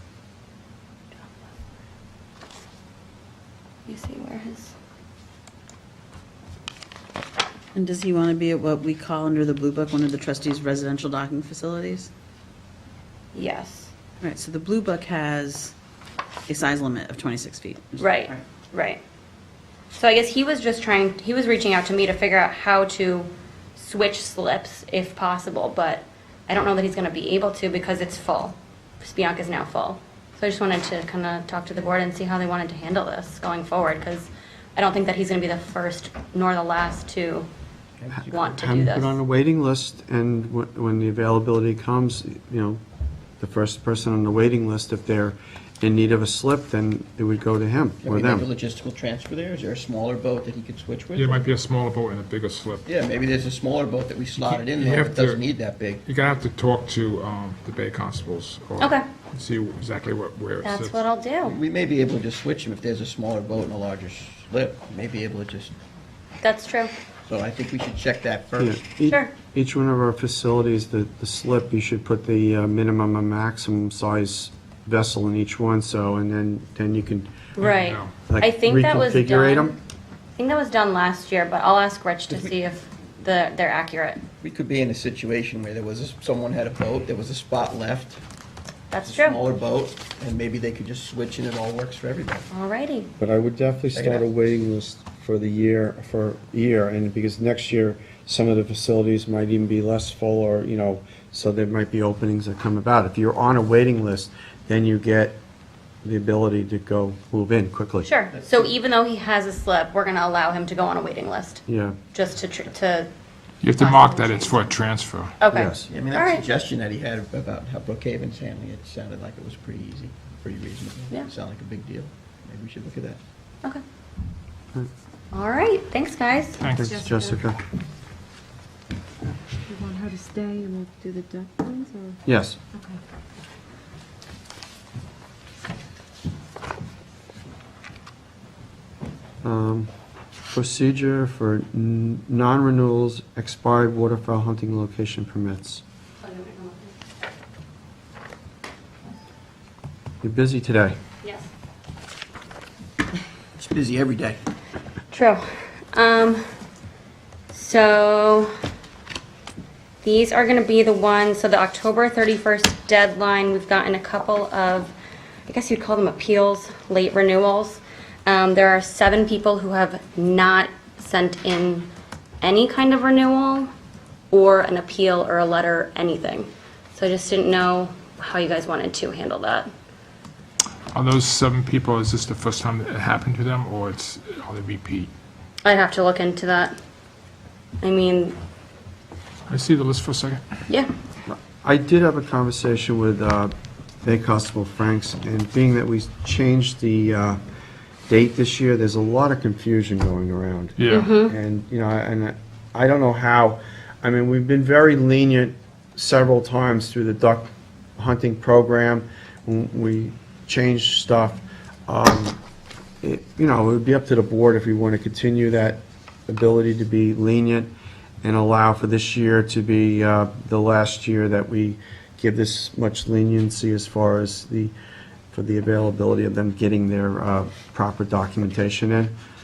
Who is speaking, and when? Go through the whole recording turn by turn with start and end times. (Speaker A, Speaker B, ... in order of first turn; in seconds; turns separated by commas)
Speaker A: 3.9-4.7, Speaker B: 7.8-12.1, Speaker A: 13.3-13.9, Speaker B: 14.2-15.7, Speaker B: 16.5-18.4, Speaker A: 18.0-19.0, Speaker A: 19.9-37.5, Speaker C: 38.0-38.2, Speaker D: 38.1-42.8, Speaker A: 38.3-39.2, Speaker D: 43.4-48.5, Speaker C: 48.0-51.5, Speaker E: 51.1-52.9, Speaker C: 52.9-56.0, Speaker E: 54.4-55.4, Speaker E: 56.0-61.0, Speaker A: 60.6-61.6, Speaker C: 61.4-65.7, Speaker A: 66.4-66.9, Speaker C: 67.3-68.8, Speaker D: 68.6-77.3, Speaker A: 69.1-69.3, Speaker A: 77.6-79.7, Speaker E: 77.6-78.1, Speaker D: 78.3-79.8, Speaker A: 80.4-84.2, Speaker C: 84.4-88.2, Speaker A: 88.9-89.4, Speaker C: 89.0-92.5, Speaker A: 92.5-93.1, Speaker D: 93.2-105.4, Speaker C: 93.9-94.2, Speaker D: 106.0-108.1, Speaker A: 108.0-113.1, Speaker D: 111.7-112.0, Speaker E: 113.6-115.3, Speaker A: 113.8-114.6, Speaker A: 115.4-116.4, Speaker D: 115.5-115.9, Speaker C: 115.9-123.2, Speaker A: 125.3-126.6, Speaker E: 126.6-127.0, Speaker D: 126.7-127.6, Speaker F: 126.9-127.4, Speaker F: 129.7-132.2, Speaker D: 132.2-132.6, Speaker D: 139.4-139.9, Speaker D: 140.5-145.8, Speaker A: 146.2-147.0, Speaker D: 150.2-151.0, Speaker A: 151.2-151.5, Speaker C: 153.6-154.4, Speaker A: 155.1-155.4, Speaker A: 155.9-156.4, Speaker A: 157.5-158.5, Speaker A: 160.0-164.9, Speaker A: 165.5-171.9, Speaker A: 172.4-173.7, Speaker A: 174.3-179.7, Speaker E: 180.9-185.1, Speaker A: 185.7-186.8, Speaker A: 187.8-188.4, Speaker E: 189.5-190.4, Speaker D: 191.3-193.5, Speaker D: 194.0-197.4, Speaker D: 198.1-212.4, Speaker E: 200.8-201.1, Speaker A: 200.9-201.3, Speaker D: 213.0-217.7, Speaker D: 218.2-224.7, Speaker D: 225.3-229.1